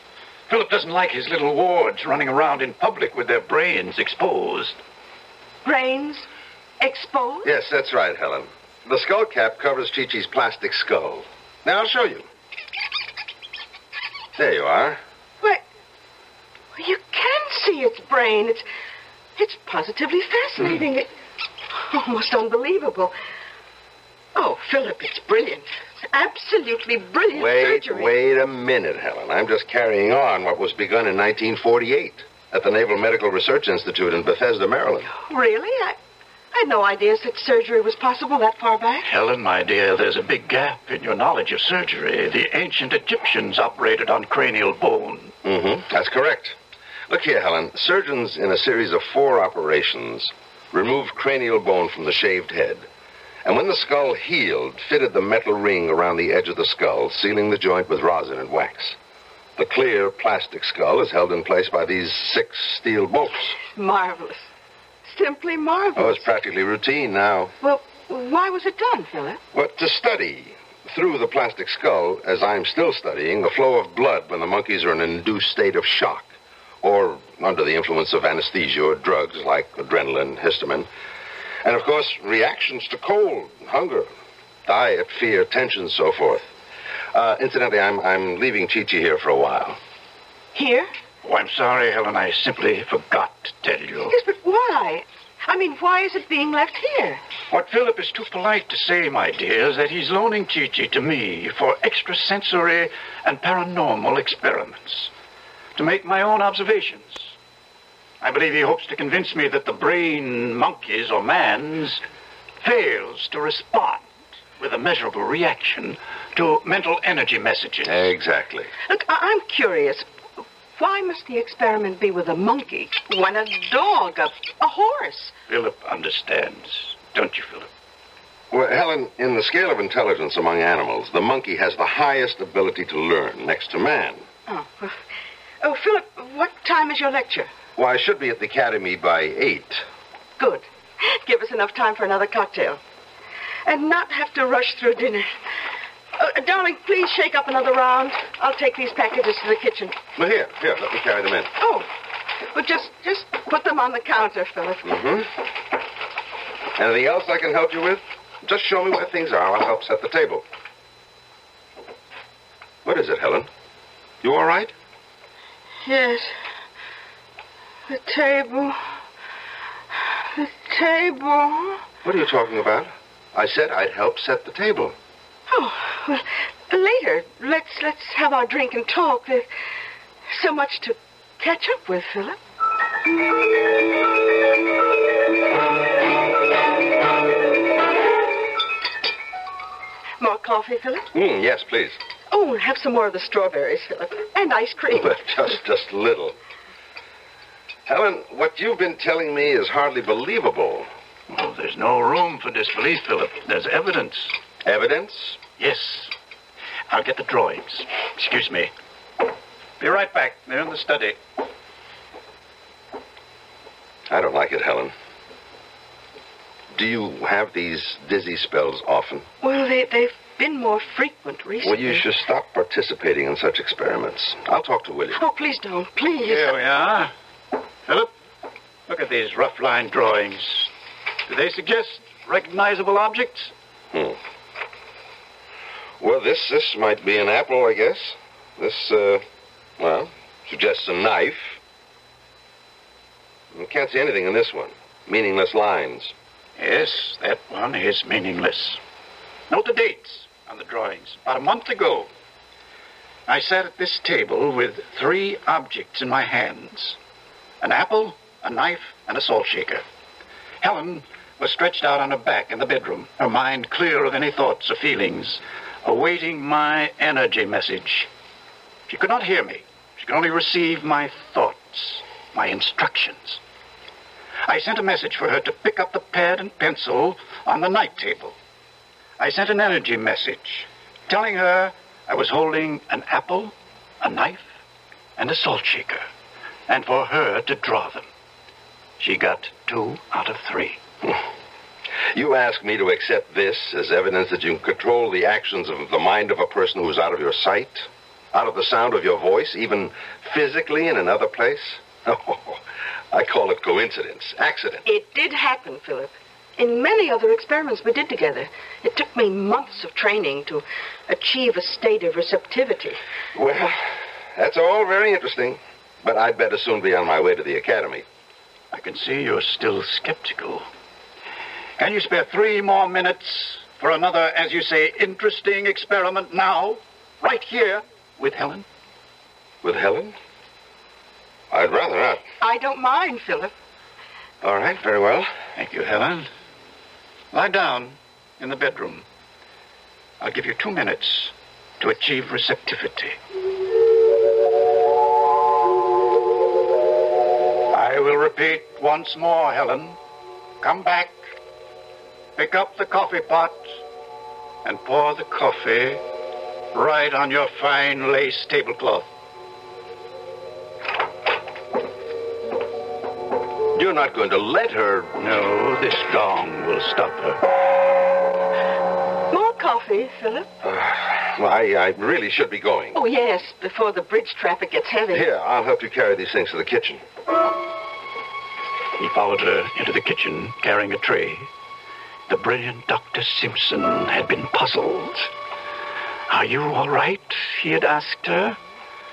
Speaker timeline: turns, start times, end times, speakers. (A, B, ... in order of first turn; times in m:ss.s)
0:00.5-0:04.8 A
0:05.6-0:06.3 B
0:06.8-0:07.5 B
0:07.4-0:12.3 C
0:14.4-0:15.0 C
0:16.7-0:18.6 B
0:19.4-0:21.1 B
0:21.7-0:23.2 B
0:24.3-0:28.1 B
0:27.3-0:35.1 C
0:35.1-0:36.0 B
0:36.5-0:39.0 B
0:39.0-0:45.4 A
0:45.4-0:46.6 C
0:47.1-0:52.8 C
0:53.4-0:59.0 C
0:59.6-1:03.6 C
1:03.7-1:04.4 B
1:05.0-1:06.2 B
1:06.0-1:07.5 C
1:07.6-1:09.4 B
1:09.5-1:20.9 C
1:21.6-1:24.1 C
1:24.6-1:26.5 C
1:27.1-1:29.8 C
1:30.5-1:30.9 B
1:31.2-1:34.1 A
1:34.1-1:37.2 B
1:37.5-1:45.1 A
1:45.8-1:47.4 A
1:48.2-1:52.0 A
1:52.6-1:58.1 A
1:57.8-1:58.7 C
1:58.9-2:00.1 B
2:00.8-2:05.3 B
2:05.5-2:07.7 A
2:08.5-2:14.2 C
2:14.5-2:15.0 B
2:15.6-2:17.5 B
2:17.8-2:19.8 C
2:20.4-2:22.8 B
2:23.6-2:25.4 B
2:26.2-2:30.0 B
2:30.2-2:31.5 C
2:31.6-2:31.9 B
2:32.5-2:35.0 B
2:34.8-2:35.3 C
2:36.8-2:40.4 C
2:42.8-2:43.5 C
2:44.2-2:44.7 C
2:45.8-2:46.4 B
2:47.9-2:48.8 B
2:50.0-2:51.8 B
2:52.0-2:55.0 C
2:55.5-2:59.5 B
3:00.3-3:02.4 B
3:10.2-3:11.1 B
3:11.1-3:12.0 C
3:12.3-3:15.2 B
3:14.9-3:16.4 C
3:17.9-3:20.9 C
3:21.3-3:24.4 A
3:24.6-3:25.4 C
3:25.6-3:26.1 A
3:26.9-3:28.7 A
3:29.8-3:31.2 A
3:34.1-3:34.9 C
3:36.7-3:39.3 C
3:39.4-3:42.0 B
3:41.6-3:45.2 C
3:45.2-3:46.5 B
3:46.2-3:47.1 A
3:48.9-3:50.7 A
3:51.2-3:53.5 A
3:53.9-3:54.2 C
3:56.0-3:59.2 C
3:59.8-4:01.6 C
4:03.5-4:06.1 C
4:06.6-4:08.8 A
4:09.5-4:12.1 A
4:13.3-4:17.0 A
4:17.6-4:19.8 A
4:20.6-4:28.1 A
4:28.9-4:33.4 A
4:34.5-4:38.4 A
4:39.2-4:44.5 A
4:45.2-4:46.1 A
4:46.7-4:48.1 A
4:49.0-4:50.8 A
4:52.1-5:04.8 C
5:04.8-5:13.0 B
5:13.3-5:18.0 C
5:18.7-5:20.7 A
5:21.8-5:28.6 A
5:29.6-5:30.1 C
5:31.5-5:32.2 C
5:32.4-5:33.5 B
5:34.4-5:35.3 C
5:35.5-5:36.3 A
5:37.3-5:39.0 A
5:40.2-5:43.2 A
5:47.7-5:50.0 A
5:50.6-5:51.2 A
5:52.4-5:53.8 A
5:54.6-5:56.0 A
5:56.7-5:59.1 A
6:03.7-6:05.2 C
6:05.2-6:07.4 A
6:09.3-6:10.5 B
6:10.6-6:13.0 C
6:12.9-6:15.2 B
6:15.1-6:17.0 C
6:19.0-6:21.5 A
6:22.3-6:25.3 A
6:26.3-6:28.6 A